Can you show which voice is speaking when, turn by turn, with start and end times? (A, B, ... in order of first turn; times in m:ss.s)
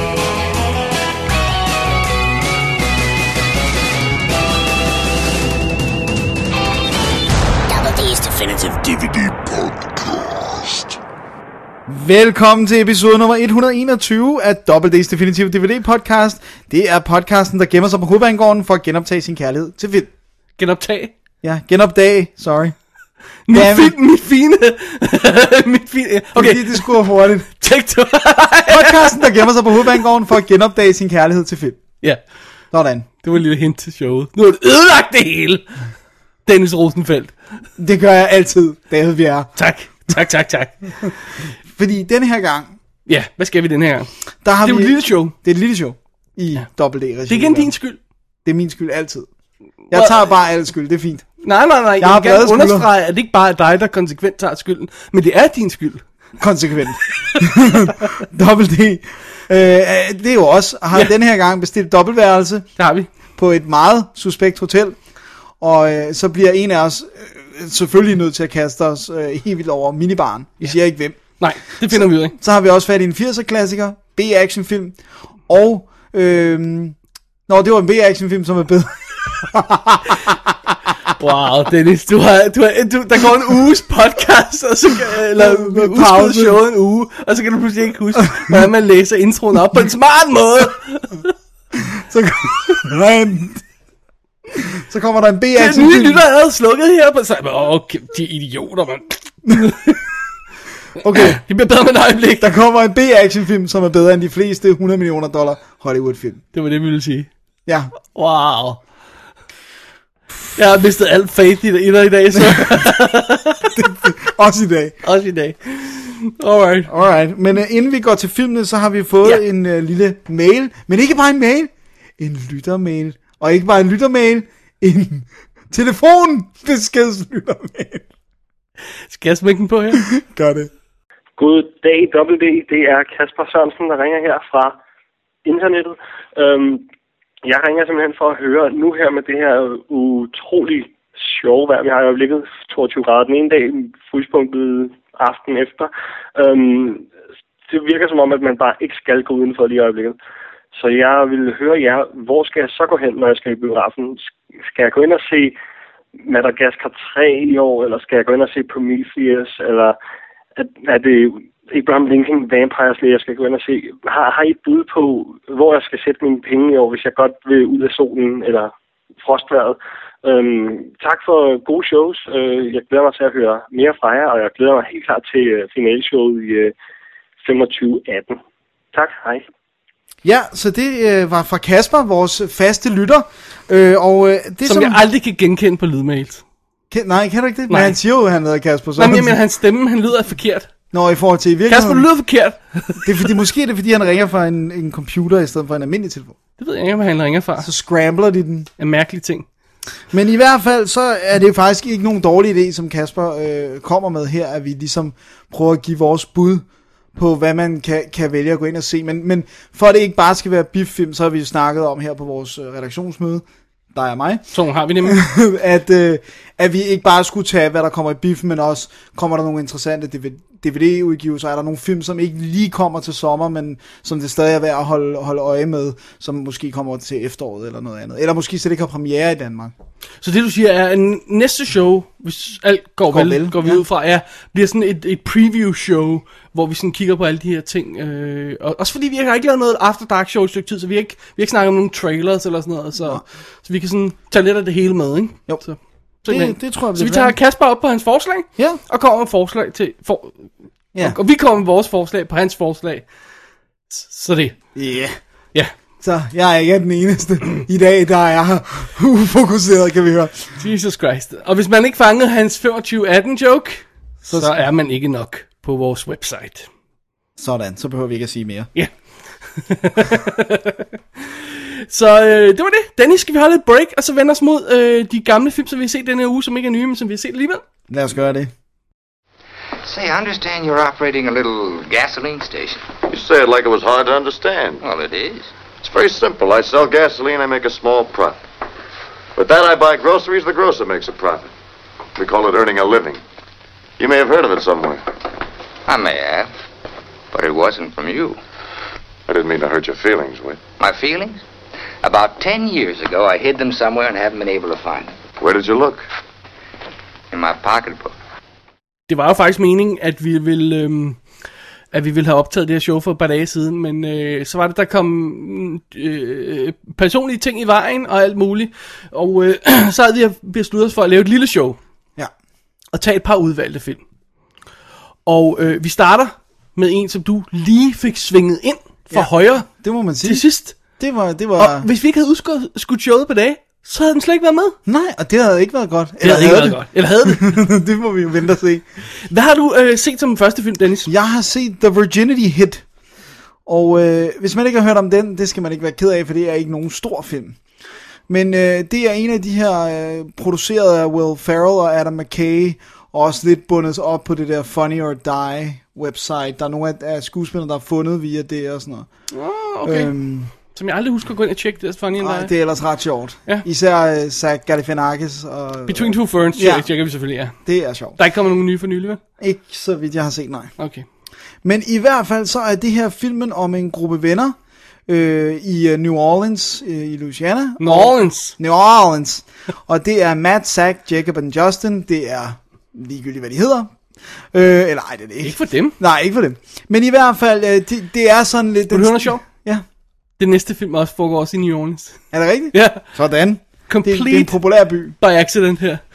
0:07.7-0:11.0 A
0:11.9-0:20.1 B
0:20.6-0:21.1 C
0:21.4-0:22.8 B
0:23.5-0:27.0 C
0:23.5-0:24.0 B
0:26.4-0:27.5 B
0:27.5-0:30.0 C
0:28.7-0:31.8 B
0:32.7-0:33.1 B
0:33.2-0:35.6 C
0:36.5-0:37.3 C
0:37.8-0:39.5 B
0:39.6-0:40.9 C
0:41.7-0:42.7 B
0:43.1-0:44.1 C
0:44.4-0:47.7 B
0:44.6-0:45.3 C
0:47.3-0:48.0 C
0:48.4-0:49.3 B
0:49.9-0:51.3 B
0:49.9-0:50.3 C
0:51.4-0:56.1 C
0:52.0-0:52.9 B
0:56.4-1:02.7 B
1:02.8-1:03.1 C
1:03.4-1:05.0 B
1:05.6-1:11.2 B
1:11.4-1:12.4 C
1:11.9-1:17.0 B
1:17.5-1:20.8 B
1:21.2-1:31.3 C
1:25.4-1:26.6 B
1:31.7-1:33.6 B
1:34.6-1:36.2 B
1:35.6-1:40.0 C
1:41.0-1:41.4 B
1:41.0-1:42.5 C
1:42.4-1:46.4 B
1:46.5-1:47.3 C
1:47.7-1:47.9 B
1:48.2-1:48.8 C
1:50.6-1:53.8 C
1:53.8-1:55.0 B
1:55.0-1:56.9 C
1:56.9-2:08.1 B
2:09.1-2:10.0 C
2:10.0-2:10.7 B
2:11.4-2:14.8 D
2:15.4-2:16.8 D
2:17.4-2:27.1 D
2:27.7-2:30.2 D
2:30.7-2:35.6 D
2:36.2-2:40.0 D
2:40.6-2:56.7 D
2:57.4-2:58.4 D
2:58.9-2:59.4 D
3:00.2-3:05.0 B
3:04.6-3:06.4 C
3:06.9-3:09.4 B
3:07.7-3:08.0 C
3:09.0-3:10.7 C
3:10.9-3:12.1 B
3:11.7-3:13.3 C
3:13.0-3:16.4 B
3:16.6-3:17.7 C
3:17.6-3:18.7 B
3:18.8-3:19.5 C
3:20.1-3:26.6 B
3:27.2-3:34.4 B
3:34.5-3:35.2 C
3:35.0-3:49.7 B
3:50.2-4:13.0 C
3:53.1-3:53.8 B
4:06.3-4:07.4 B
4:13.9-4:14.6 C
4:14.8-4:15.2 B
4:16.0-4:20.6 B
4:20.6-4:26.7 C
4:27.4-4:28.7 B
4:29.6-4:37.6 C
4:37.9-4:38.5 B
4:39.8-4:42.9 E
4:43.1-4:44.8 F
4:44.8-4:45.5 E
4:45.8-4:48.4 F
4:49.4-4:51.5 F
4:52.2-4:53.2 F
4:54.0-4:55.0 F
4:55.9-4:56.5 E
4:57.3-4:58.4 E
4:59.3-5:00.6 F
5:00.8-5:01.4 E
5:02.0-5:05.1 E
5:05.4-5:06.0 F
5:07.3-5:08.1 E
5:09.1-5:11.2 C
5:11.9-5:21.8 C
5:22.9-5:24.0 C
5:25.3-5:29.7 C
5:29.1-5:30.4 B
5:30.2-5:30.8 C
5:31.0-5:31.9 B
5:31.6-5:34.8 C
5:34.9-5:38.8 B
5:36.2-5:37.6 C
5:39.3-5:41.1 C
5:41.1-5:42.8 B
5:43.7-5:47.6 B
5:48.3-5:59.1 B
5:59.3-6:02.5 C
5:59.8-6:00.5 B
6:02.2-6:06.9 B
6:05.9-6:07.6 C
6:07.6-6:08.2 B
6:08.2-6:09.2 C
6:09.4-6:10.7 B
6:10.8-6:11.0 C
6:11.6-6:23.9 B
6:17.8-6:18.6 C
6:24.5-6:29.8 B
6:25.4-6:26.0 C
6:28.9-6:29.4 C
6:30.4-6:32.2 C
6:32.3-6:35.2 B
6:32.7-6:33.0 C
6:33.9-6:34.6 C
6:35.2-6:36.0 C